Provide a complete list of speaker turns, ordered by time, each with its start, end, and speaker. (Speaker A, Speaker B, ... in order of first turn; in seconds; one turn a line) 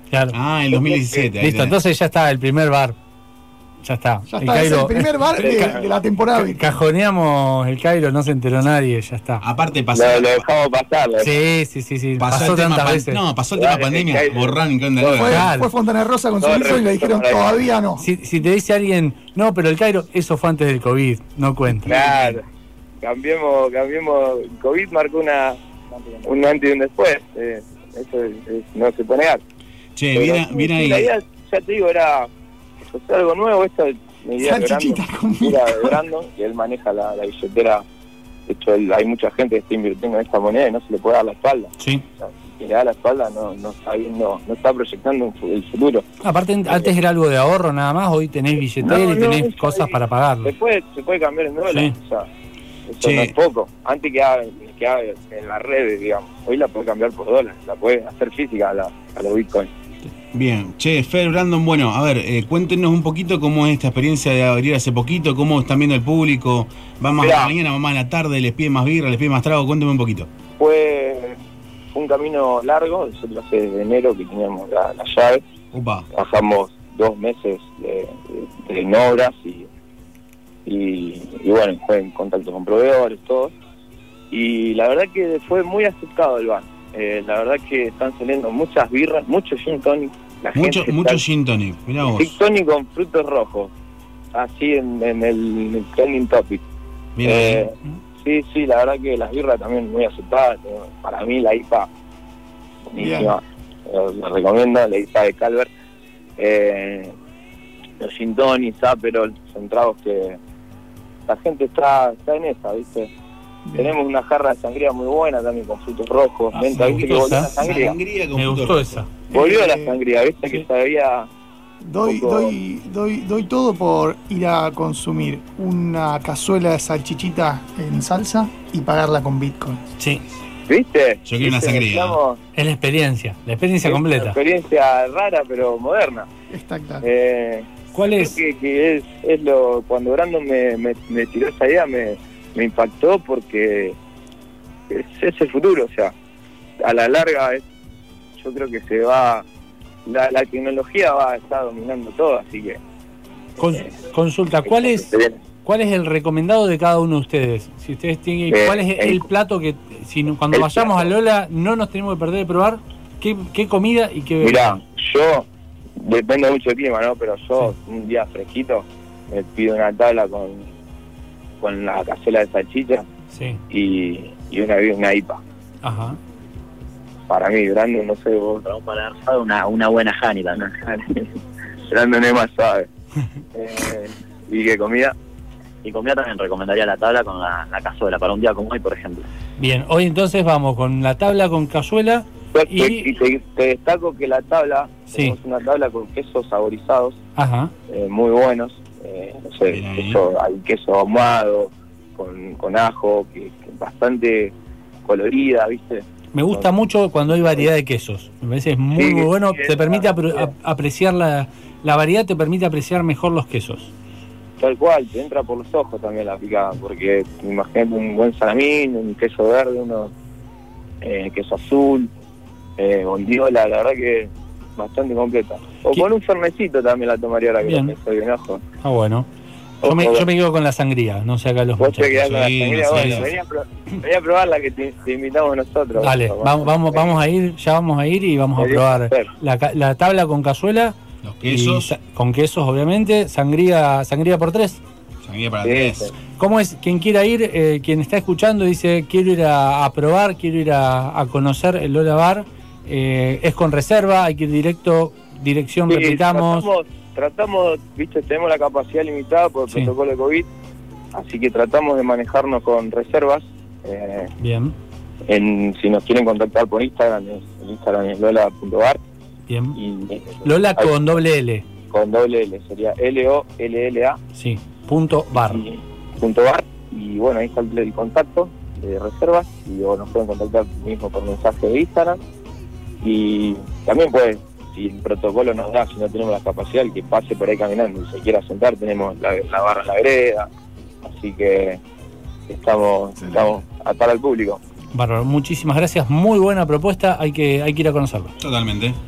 Speaker A: 0.3-1.8
Speaker B: 1.2-3.0
Speaker B: 3.8-5.1
Speaker C: 4.3-6.6
Speaker D: 5.4-5.8
Speaker B: 6.4-9.4
Speaker A: 9.4-10.5
Speaker D: 9.9-11.4
Speaker B: 11.2-13.2
Speaker A: 12.2-15.5
Speaker D: 13.6-15.3
Speaker C: 15.2-18.0
Speaker B: 15.2-15.7
Speaker D: 16.4-17.6
Speaker B: 18.0-21.9
Speaker A: 21.9-22.4
Speaker D: 21.9-22.4
Speaker D: 23.0-25.6
Speaker D: 26.2-29.4
Speaker A: 30.0-31.1
Speaker D: 30.1-32.3
Speaker D: 32.8-37.8
Speaker C: 34.4-36.0
Speaker D: 38.5-46.0
Speaker B: 41.8-42.0
Speaker B: 46.2-50.5
Speaker D: 48.8-52.3
Speaker B: 51.7-52.0
Speaker D: 52.9-59.7
Speaker A: 53.0-53.3
Speaker A: 60.3-70.3
Speaker D: 67.2-67.5
Speaker D: 70.6-71.4
Speaker D: 71.9-75.4
Speaker A: 75.7-76.1
Speaker D: 76.2-79.7
Speaker D: 80.7-83.5
Speaker D: 84.3-91.2
Speaker A: 90.5-92.3
Speaker D: 92.0-93.7
Speaker D: 94.3-96.6
Speaker A: 97.2-97.7
Speaker D: 97.2-101.9
Speaker D: 102.9-105.7
Speaker C: 103.0-103.3
Speaker D: 106.4-107.2
Speaker D: 108.0-110.4
Speaker D: 111.3-113.1
Speaker C: 113.7-114.0
Speaker D: 113.8-118.0
Speaker B: 116.5-117.7
Speaker A: 117.0-119.0
Speaker B: 118.4-119.1
Speaker C: 119.3-120.0
Speaker D: 119.3-121.3
Speaker C: 121.8-129.8
Speaker D: 122.0-122.5
Speaker D: 130.7-132.4
Speaker A: 131.3-132.2
Speaker B: 132.6-134.4
Speaker D: 133.8-136.3
Speaker C: 136.5-137.1
Speaker D: 137.0-144.0
Speaker B: 137.9-138.3
Speaker D: 144.9-146.1
Speaker D: 146.8-147.7
Speaker D: 148.4-149.4
Speaker D: 150.1-152.8
Speaker B: 153.6-155.1
Speaker D: 154.7-155.4
Speaker B: 155.7-164.8
Speaker D: 158.5-159.2
Speaker D: 160.5-161.1
Speaker D: 164.4-165.5
Speaker D: 166.0-170.7
Speaker D: 171.6-173.1
Speaker B: 173.3-173.6
Speaker D: 173.7-175.4
Speaker B: 175.8-176.2
Speaker D: 177.3-178.7
Speaker E: 178.7-180.8
Speaker D: 180.6-181.3
Speaker D: 181.9-182.9
Speaker D: 183.6-185.1
Speaker E: 185.8-189.2
Speaker B: 189.6-193.1
Speaker D: 192.5-197.2
Speaker B: 195.1-195.4
Speaker B: 197.4-197.7
Speaker D: 197.9-204.5
Speaker A: 199.7-200.2
Speaker D: 205.1-206.7
Speaker B: 206.3-213.9
Speaker D: 209.0-210.5
Speaker D: 214.6-220.1
Speaker D: 221.0-222.1
Speaker D: 222.8-228.6
Speaker B: 227.6-227.9
Speaker B: 228.8-229.3
Speaker D: 229.8-230.3
Speaker B: 229.8-232.4
Speaker D: 231.8-237.2
Speaker A: 232.2-233.3
Speaker B: 232.9-233.3
Speaker B: 236.0-241.0
Speaker D: 238.6-239.3
Speaker A: 241.2-241.9
Speaker B: 241.5-244.8
Speaker A: 245.2-246.1
Speaker D: 245.6-246.1
Speaker B: 246.4-256.7
Speaker D: 255.9-260.5
Speaker D: 261.1-264.3
Speaker B: 264.4-264.7
Speaker D: 265.3-269.0
Speaker B: 269.5-269.8
Speaker D: 269.8-271.1
Speaker B: 270.4-271.6
Speaker D: 271.9-274.2
Speaker B: 274.4-275.7
Speaker D: 275.5-282.2
Speaker D: 283.0-290.5
Speaker D: 291.0-291.8
Speaker D: 292.5-294.6
Speaker C: 293.2-293.5
Speaker B: 294.9-298.3
Speaker A: 298.4-299.0